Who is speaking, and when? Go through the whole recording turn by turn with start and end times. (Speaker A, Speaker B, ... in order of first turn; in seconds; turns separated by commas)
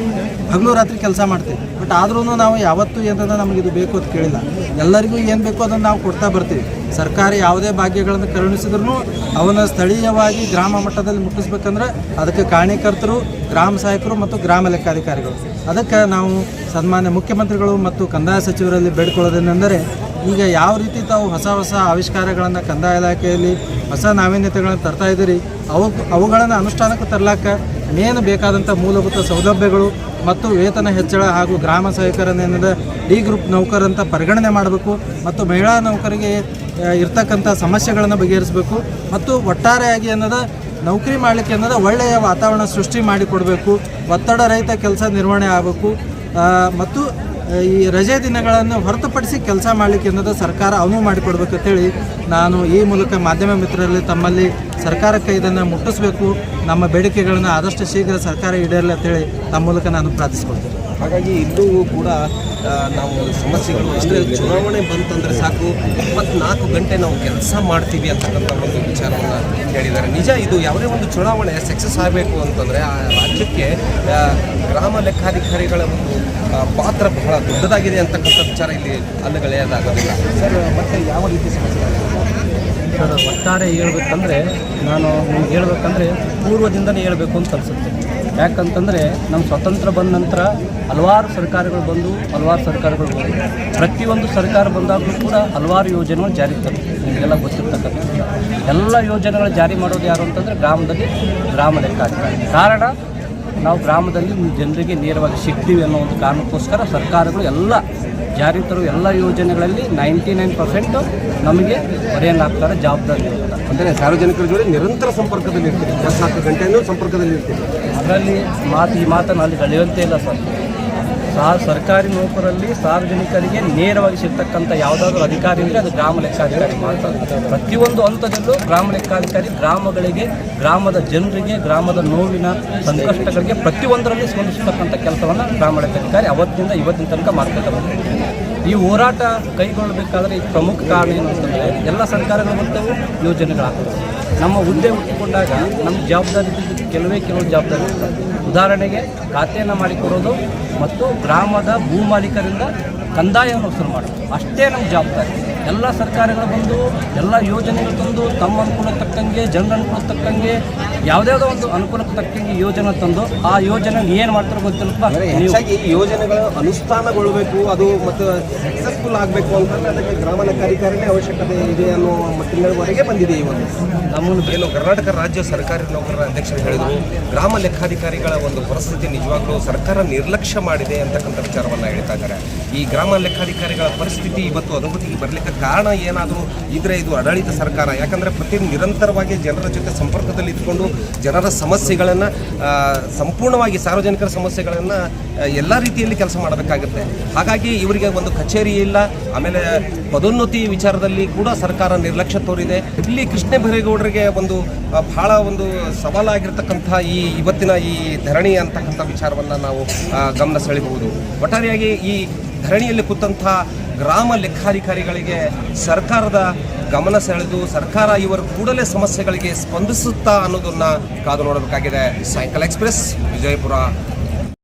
Speaker A: 0.5-60.8, Speaker B: 61.0-62.2, Speaker B: 62.7-82.3, Speaker C: 83.0-98.1, Speaker C: 98.7-102.9, Speaker C: 103.6-107.8, Speaker C: 108.3-113.6, Speaker B: 113.7-117.7, Speaker C: 118.0-120.5, Speaker C: 121.3-137.9, Speaker B: 126.4-127.4, Speaker B: 133.1-133.5, Speaker C: 138.7-160.6, Speaker C: 161.1-165.6, Speaker B: 165.1-173.8, Speaker C: 174.1-174.6, Speaker B: 174.4-223.9